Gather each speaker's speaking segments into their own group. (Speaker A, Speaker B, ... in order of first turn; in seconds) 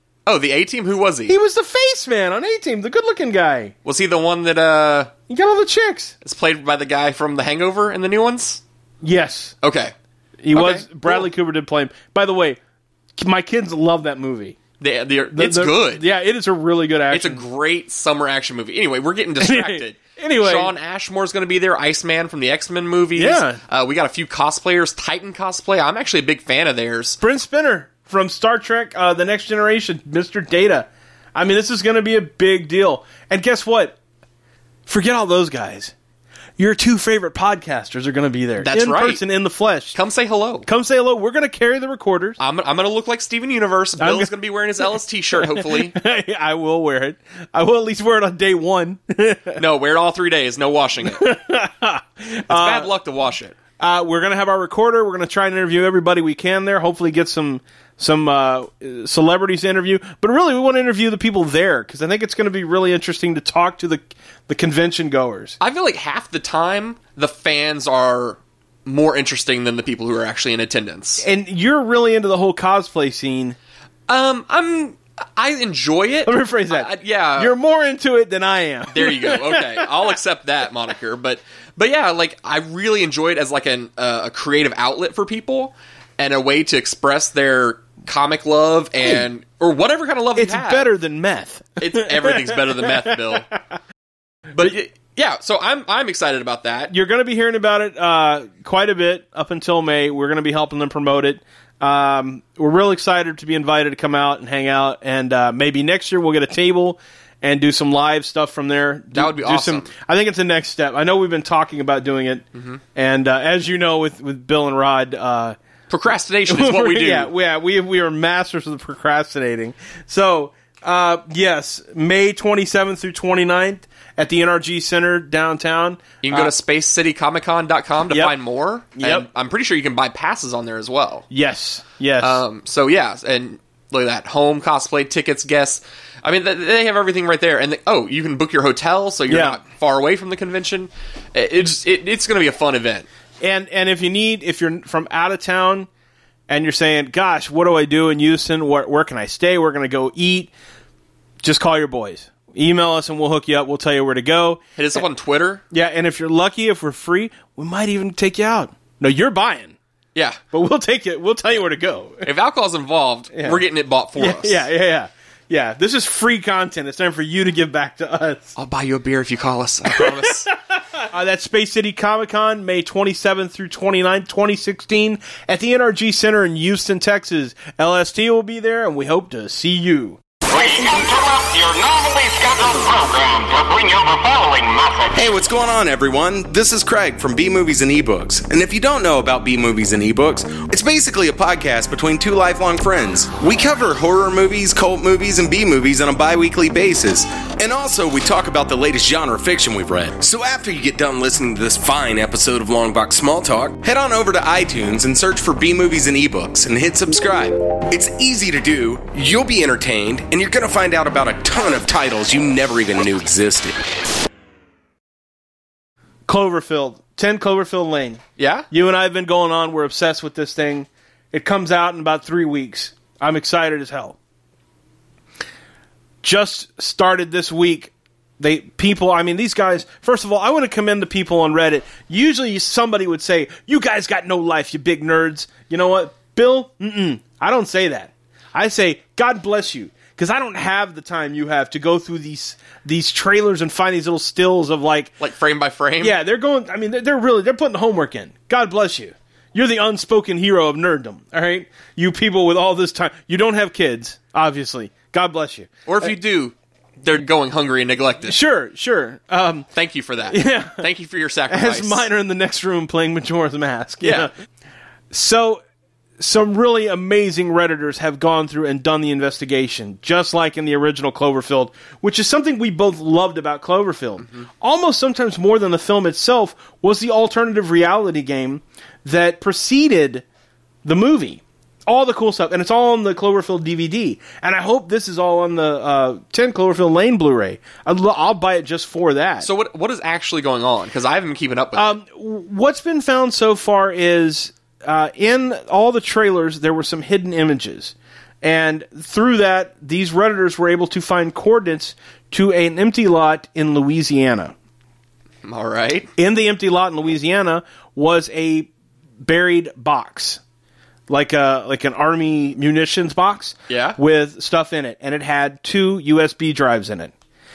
Speaker A: 0.2-1.4, 3.8-5.1, 6.2-8.6, 9.6-9.9, 10.5-11.3, 14.8-16.0, 17.1-27.2, 38.6-39.2, 39.9-40.7, 42.4-46.0, 49.6-51.2, 52.5-53.6, 65.6-71.2, 74.1-77.5, 78.9-90.9, 91.8-93.5, 94.5-96.9, 109.1-109.9, 112.5-112.8, 115.9-117.3, 126.2-131.2, 132.2-143.1, 154.8-155.6, 160.1-160.4, 162.2-164.6, 168.6-170.5, 218.4-218.7, 245.2-246.2, 255.8-258.4, 259.7-262.0, 264.0-264.3, 274.2-274.5, 289.4-292.0, 305.4-306.1, 313.7-314.0
Speaker B: 1.3-3.7, 5.3-6.1, 9.0-9.5, 10.4-12.6, 13.2-14.6, 15.3-17.4, 19.4-20.7, 23.1-23.6, 27.2-34.0, 34.9-35.9, 36.6-40.0, 40.6-42.4, 44.0-44.3, 45.3-49.6, 51.0-52.9, 53.8-65.5, 71.2-73.6, 76.2-79.9, 90.3-93.4, 96.9-115.6, 116.5-126.5, 128.1-128.4, 128.9-129.3, 131.3-132.4, 139.3-139.6, 143.4-145.9, 146.5-150.5, 151.4-154.6, 155.7-159.8, 160.5-162.3, 163.3-163.6, 164.2-168.5, 169.9-180.2, 216.2-224.2, 226.2-245.2, 246.0-255.7, 258.2-259.7, 260.2-260.8, 261.5-264.3, 265.1-265.6, 266.2-280.2, 280.8-289.5, 291.8-304.5, 306.2-308.7, 309.2-310.4, 311.1-317.1
Speaker C: 180.6-184.9
Speaker D: 185.0-213.8